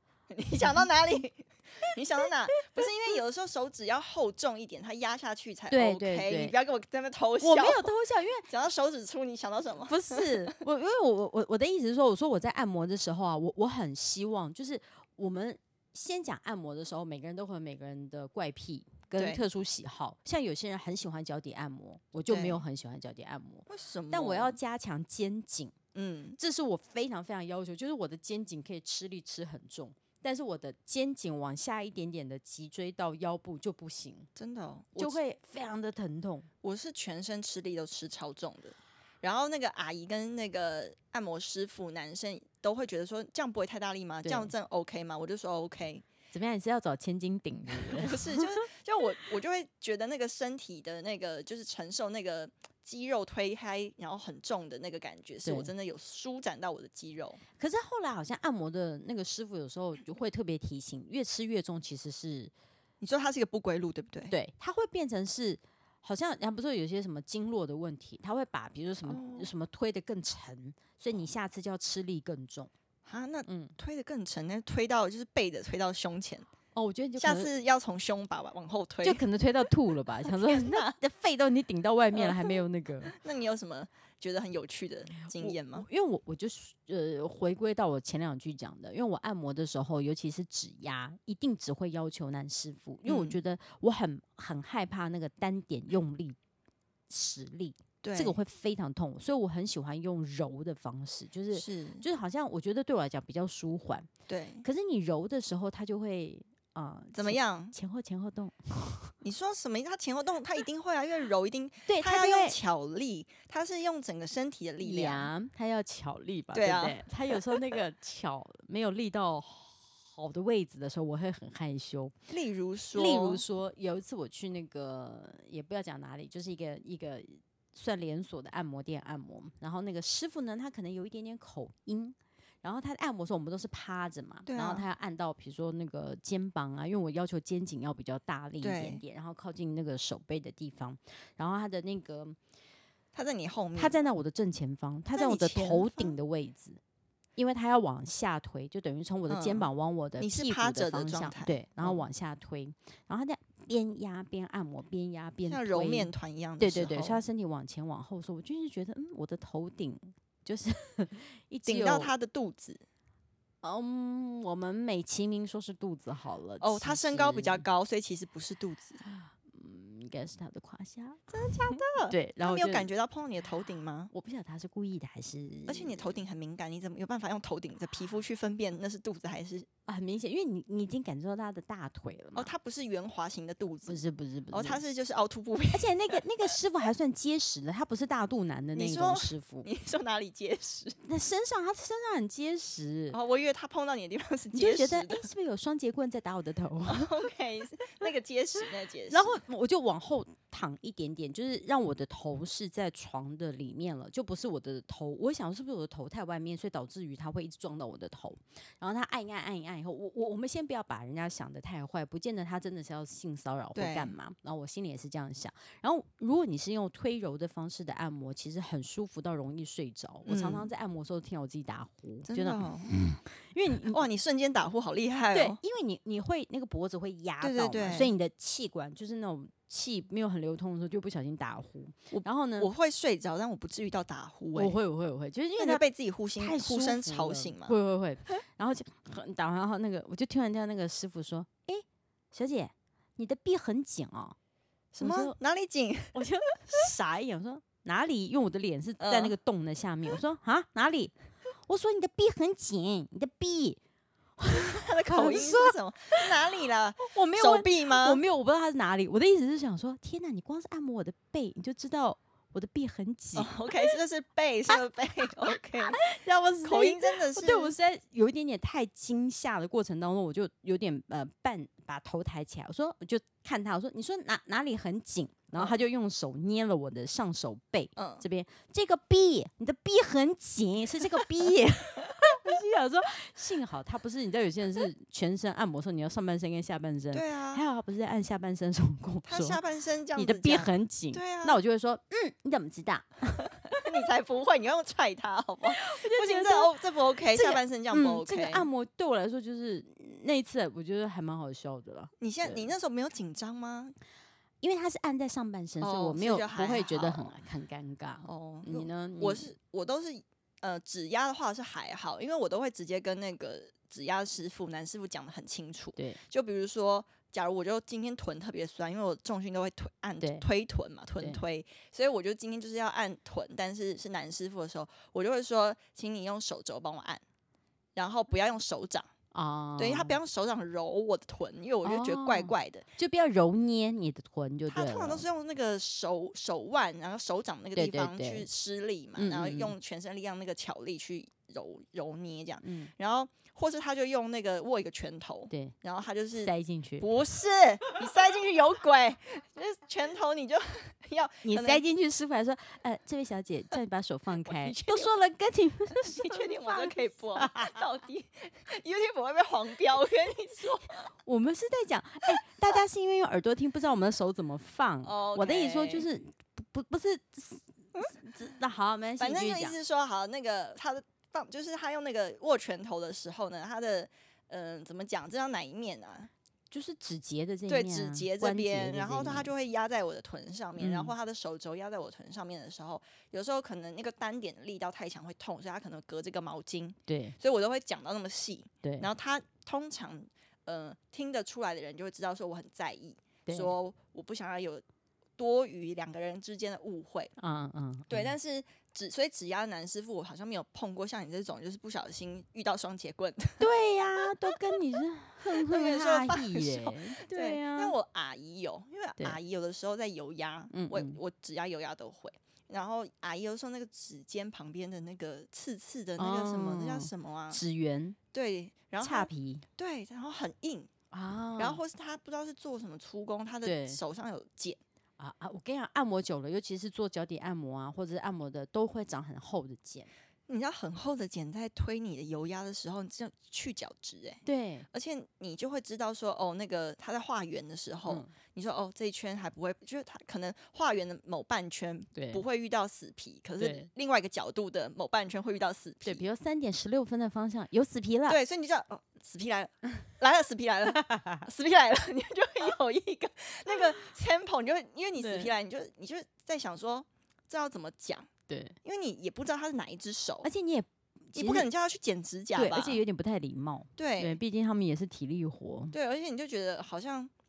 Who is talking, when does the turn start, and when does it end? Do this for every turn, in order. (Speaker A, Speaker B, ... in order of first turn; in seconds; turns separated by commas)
Speaker A: 0.3-7.9, Speaker B: 5.7-6.5, Speaker B: 7.4-8.5, Speaker A: 8.5-10.6, Speaker B: 9.8-25.8, Speaker A: 19.2-19.4, Speaker A: 22.3-22.6, Speaker A: 23.7-24.6, Speaker A: 25.9-26.4, Speaker B: 26.4-34.3, Speaker A: 34.4-35.2, Speaker B: 35.0-36.5, Speaker A: 36.6-46.0, Speaker B: 44.2-44.5, Speaker B: 46.3-48.6, Speaker A: 47.7-57.4, Speaker B: 55.4-55.7, Speaker B: 57.6-62.5, Speaker A: 63.0-64.3, Speaker B: 64.3-72.7, Speaker A: 69.0-69.5, Speaker A: 73.0-76.5, Speaker B: 73.5-73.7, Speaker B: 76.7-77.5, Speaker A: 77.2-79.2, Speaker B: 79.0-83.2, Speaker A: 80.2-80.9, Speaker A: 82.1-85.8, Speaker B: 85.2-96.4, Speaker A: 93.0-93.4, Speaker B: 97.1-104.1, Speaker A: 98.0-98.4, Speaker A: 101.5-102.0, Speaker A: 104.3-104.7, Speaker B: 104.6-109.1, Speaker A: 107.1-107.7, Speaker A: 109.2-115.3, Speaker B: 111.9-112.6, Speaker B: 114.8-122.1, Speaker A: 116.5-117.8, Speaker A: 122.3-123.4, Speaker B: 122.9-142.4, Speaker A: 134.4-134.8, Speaker A: 138.6-139.0, Speaker A: 143.1-144.0, Speaker B: 143.8-146.8, Speaker A: 145.1-146.2, Speaker B: 147.3-162.1, Speaker A: 149.3-152.1, Speaker A: 155.4-157.2, Speaker A: 161.7-162.8, Speaker B: 163.6-167.7, Speaker A: 166.6-169.0, Speaker B: 169.1-172.9, Speaker A: 171.3-174.1, Speaker B: 174.1-176.1, Speaker A: 175.7-179.7, Speaker B: 179.9-182.5, Speaker A: 182.3-184.0, Speaker B: 183.9-184.8, Speaker A: 184.5-186.6, Speaker B: 185.7-189.7, Speaker A: 188.7-191.0, Speaker B: 191.0-193.2, Speaker A: 193.1-195.3, Speaker B: 194.5-197.1, Speaker A: 196.9-199.3, Speaker B: 199.1-224.0, Speaker A: 213.7-214.1, Speaker A: 220.2-220.7, Speaker A: 222.2-222.9, Speaker A: 223.9-225.6, Speaker B: 225.3-232.7, Speaker A: 227.4-228.1, Speaker A: 232.1-234.8, Speaker B: 234.5-235.8, Speaker A: 235.6-237.7, Speaker B: 236.4-244.3, Speaker A: 244.9-246.2, Speaker B: 245.0-245.3, Speaker B: 246.1-251.1, Speaker A: 249.0-249.3, Speaker B: 251.7-253.8, Speaker B: 254.4-256.2, Speaker A: 254.6-258.2, Speaker B: 257.1-263.9, Speaker A: 263.4-266.0, Speaker B: 265.8-289.6, Speaker A: 266.6-267.7, Speaker A: 278.0-278.2, Speaker A: 287.1-287.6, Speaker A: 289.2-291.6, Speaker B: 290.1-293.8, Speaker A: 293.8-298.7, Speaker B: 295.6-296.7, Speaker B: 297.3-302.7, Speaker A: 302.2-303.9, Speaker B: 304.6-309.5, Speaker A: 305.8-307.4, Speaker A: 308.2-327.2, Speaker B: 320.2-320.4, Speaker B: 321.2-321.4, Speaker A: 327.9-329.1, Speaker B: 329.3-330.1, Speaker A: 329.8-332.9, Speaker B: 331.8-335.2, Speaker A: 334.7-351.8, Speaker B: 337.7-338.5, Speaker B: 339.2-339.7, Speaker B: 342.6-342.9, Speaker B: 346.4-347.1, Speaker B: 351.4-357.8, Speaker A: 354.4-355.1, Speaker A: 356.0-361.1, Speaker B: 361.2-369.8, Speaker A: 365.0-366.1, Speaker A: 369.2-376.3, Speaker B: 376.7-379.5, Speaker A: 377.7-394.8, Speaker B: 380.8-381.1, Speaker B: 387.1-387.4, Speaker B: 388.8-389.1, Speaker B: 393.4-393.7, Speaker A: 395.4-397.3, Speaker B: 397.4-398.3, Speaker A: 398.1-403.7, Speaker B: 403.6-407.9, Speaker A: 405.5-417.6, Speaker B: 410.7-411.2, Speaker B: 416.2-418.2, Speaker A: 418.3-420.9, Speaker B: 419.0-419.6, Speaker B: 421.1-421.8, Speaker A: 421.6-424.8, Speaker B: 423.6-424.0, Speaker B: 425.2-430.1, Speaker A: 430.5-446.2, Speaker B: 434.4-434.9, Speaker B: 442.1-442.4, Speaker B: 443.6-443.9, Speaker B: 446.0-448.4, Speaker A: 448.3-458.3, Speaker B: 451.0-451.4, Speaker B: 455.2-455.5, Speaker B: 458.5-458.8, Speaker A: 458.8-460.5, Speaker B: 460.4-461.7, Speaker A: 461.3-463.0, Speaker B: 462.6-465.9, Speaker A: 464.0-464.4, Speaker A: 465.9-467.3